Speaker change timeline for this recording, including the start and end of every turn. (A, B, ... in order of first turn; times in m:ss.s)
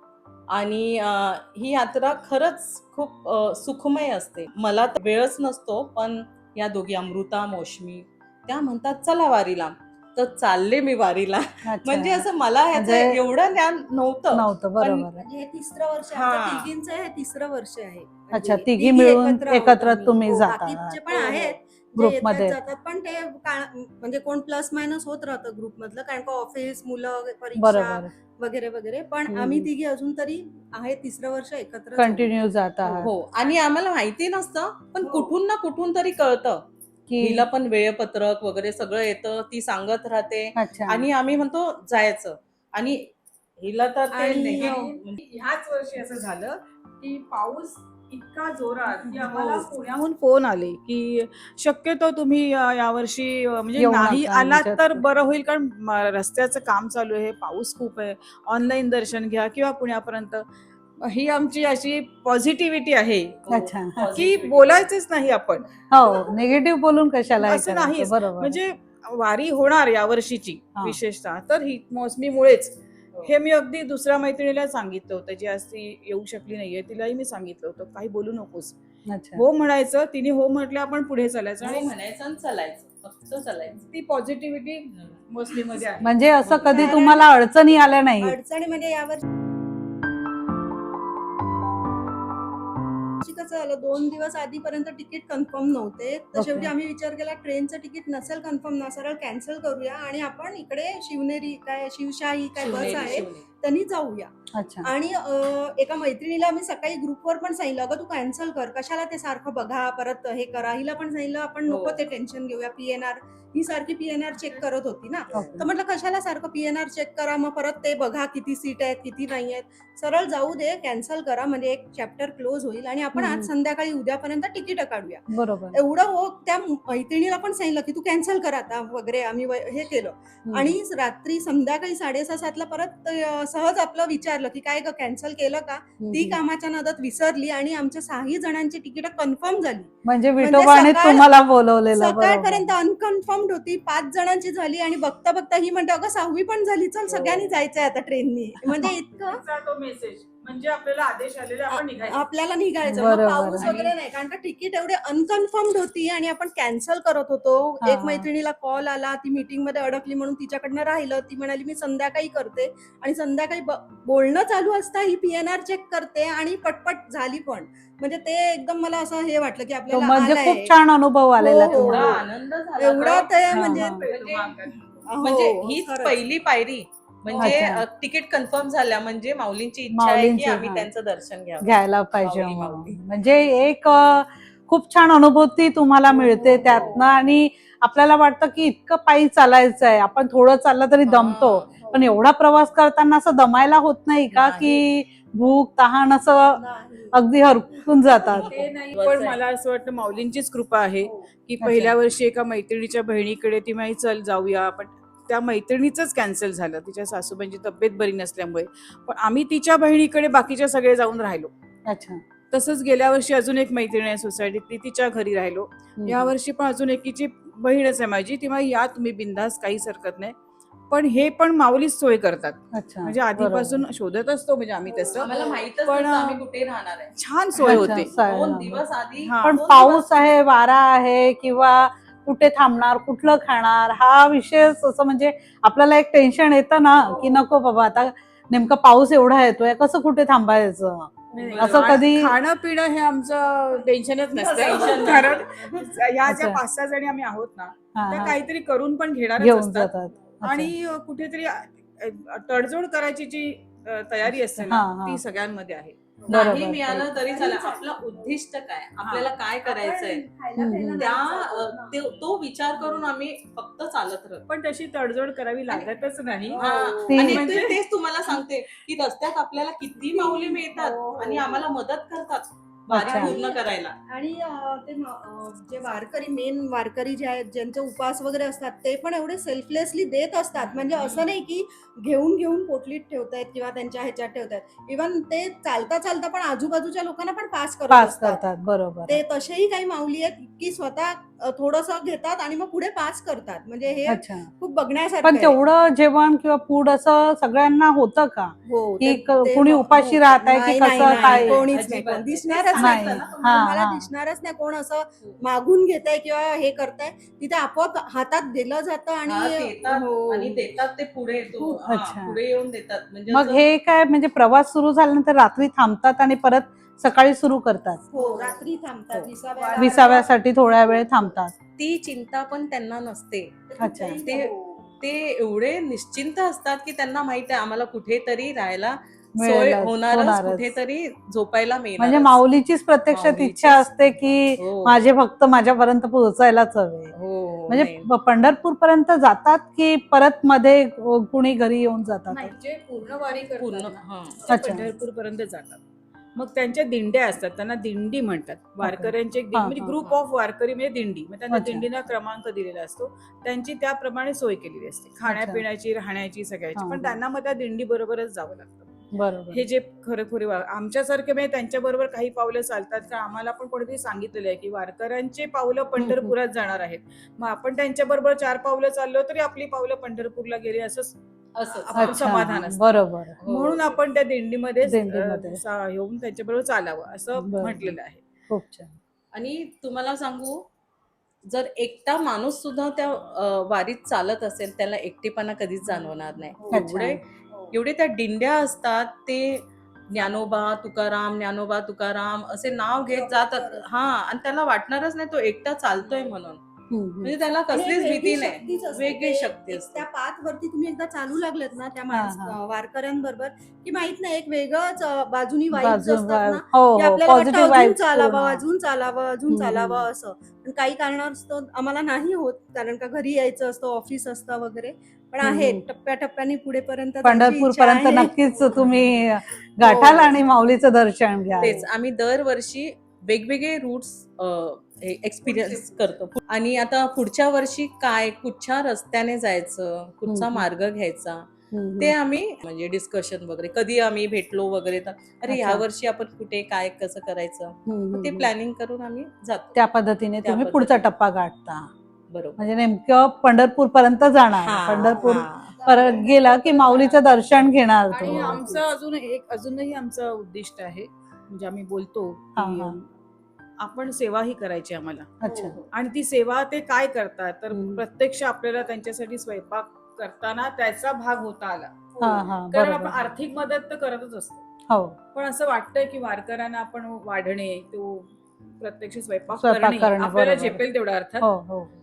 0:00.5-0:15.0 A
0:11.6-0:13.2 B
0:14.3-0:15.2 B
0:15.1-0:33.0 C
0:16.1-0:16.7 A
0:18.3-0:21.2 B
0:22.0-0:22.6 B
0:27.6-0:28.1 B
0:29.3-0:29.7 B
0:32.0-0:33.1 B
0:33.0-0:36.6 A
0:37.1-0:37.5 B
0:37.2-0:43.1 A
0:40.6-0:41.0 B
0:43.6-0:45.2 A
0:44.1-1:00.4 D
0:44.2-0:44.9 C
0:49.1-0:49.7 B
0:53.8-0:55.0 B
1:01.0-1:03.4 D
1:03.5-1:04.9 A
1:03.5-1:04.2 B
1:04.1-1:05.7 D
1:05.9-1:08.6 B
1:07.4-1:18.8 D
1:19.1-1:19.4 B
1:19.3-1:21.9 D
1:21.6-1:23.8 A
1:23.8-1:26.6 D
1:26.0-1:28.3 B
1:26.7-1:27.5 C
1:28.2-1:29.2 C
1:33.2-1:44.3 C
1:36.3-1:36.7 B
1:42.6-1:43.4 A
1:43.0-1:43.2 D
1:44.5-1:44.9 B
1:44.8-2:21.3 C
1:51.7-1:52.0 A
1:55.3-1:55.6 B
2:03.1-2:03.5 B
2:05.3-2:05.8 B
2:10.4-2:10.7 B
2:16.0-2:16.4 B
2:20.0-2:22.6 B
2:21.9-2:29.4 C
2:28.6-2:28.9 B
2:29.2-2:32.2 D
2:31.7-2:50.7 C
2:32.9-2:33.7 B
2:33.0-2:33.9 D
2:37.8-2:38.3 B
2:49.9-2:52.2 B
2:51.4-2:52.2 C
2:51.6-2:54.6 A
2:52.8-2:54.0 C
2:53.5-2:54.0 B
2:53.8-2:54.8 D
2:55.0-2:56.2 C
2:55.2-3:03.0 A
2:57.4-2:57.8 B
2:59.9-3:00.9 B
3:01.6-3:16.6 B
3:06.1-3:07.1 C
3:11.0-3:11.7 A
3:11.8-3:12.1 C
3:14.3-3:14.8 A
3:16.5-3:18.2 C
3:17.1-3:18.5 B
3:18.2-3:31.5 D
3:18.3-3:19.4 A
3:21.6-3:21.9 B
3:31.9-3:32.2 B
3:32.5-3:40.4 D
3:36.0-3:36.3 B
3:40.9-3:46.4 D
3:42.7-3:43.8 B
3:44.9-3:45.6 C
3:45.2-3:50.3 A
3:47.2-3:48.1 D
3:47.6-3:48.8 B
3:49.2-3:49.7 D
3:49.4-4:02.3 B
3:57.0-3:57.4 C
4:01.4-4:16.1 D
4:01.4-4:02.1 A
4:04.3-4:05.9 A
4:06.2-4:06.6 B
4:07.9-4:08.4 B
4:09.4-4:10.7 B
4:14.3-4:15.2 B
4:16.2-4:16.5 C
4:16.3-4:17.1 B
4:16.3-4:20.2 A
4:17.1-4:18.4 C
4:19.0-4:19.3 D
4:19.6-4:22.0 C
4:20.6-4:21.0 B
4:21.0-4:24.4 A
4:24.5-4:27.8 D
4:26.5-4:33.9 A
4:26.6-4:27.1 C
4:27.1-4:27.6 B
4:30.0-4:31.6 C
4:32.9-4:33.3 B
4:33.1-4:48.4 C
4:40.9-4:41.2 A
4:47.9-4:49.2 B
4:49.1-4:55.6 C
4:54.1-4:54.5 B
4:55.2-5:01.6 B
4:58.6-5:10.6 C
5:00.9-5:03.4 A
5:02.8-5:04.0 B
5:09.3-5:13.6 A
5:11.6-5:12.4 B
5:13.3-5:18.0 B
5:18.1-5:20.3 C
5:18.2-5:18.5 D
5:19.6-5:20.2 D
5:19.8-5:21.5 B
5:21.8-5:23.5 A
5:23.7-5:24.8 C
5:23.8-5:24.2 B
5:24.2-5:32.4 A
5:29.4-5:30.7 B
5:32.0-5:37.1 B
5:33.1-5:33.9 A
5:34.6-5:35.0 A
5:37.1-5:38.1 A
5:37.7-5:42.5 B
5:42.3-5:45.8 D
5:43.6-5:44.4 A
5:44.5-5:44.9 B
5:46.4-5:58.9 D
5:48.8-5:50.0 B
5:51.5-5:51.8 B
5:55.3-5:55.6 B
5:56.8-5:57.2 B
5:59.1-5:59.6 B
5:59.5-6:11.1 D
6:06.0-6:06.3 B
6:11.5-6:12.2 A
6:11.7-6:12.8 D
6:11.9-6:13.4 B
6:13.4-6:14.0 A
6:13.4-6:18.2 D
6:14.8-6:15.6 B
6:17.4-6:17.9 B
6:18.5-6:19.0 B
6:19.3-6:20.6 A
6:21.4-6:36.6 A
6:26.6-6:26.8 C
6:26.7-6:27.2 B
6:33.1-6:33.8 C
6:36.9-6:37.3 B
6:37.2-6:40.0 A
6:37.7-6:58.8 C
6:42.1-6:42.6 B
6:45.7-6:48.6 B
6:49.5-6:50.0 B
6:55.4-6:55.8 B
6:57.2-7:01.8 B
6:59.8-7:00.4 C
7:01.6-7:19.8 A
7:05.4-7:06.0 D
7:10.3-7:10.7 B
7:11.7-7:12.1 B
7:15.5-7:15.8 B
7:17.9-7:18.5 B
7:19.8-7:21.9 B
7:20.4-7:21.1 A
7:22.3-7:22.6 A
7:22.6-7:28.8 B
7:24.6-7:25.8 A
7:25.0-7:27.2 C
7:28.1-7:33.1 D
7:32.6-7:32.9 B
7:33.8-7:35.3 D
7:35.4-7:35.8 B
7:35.4-7:35.8 C
7:35.9-7:44.6 D
7:37.7-7:38.0 B
7:42.2-7:43.1 B
7:44.9-7:45.2 B
7:45.3-7:51.5 D
7:49.5-7:50.8 B
7:51.4-7:51.9 B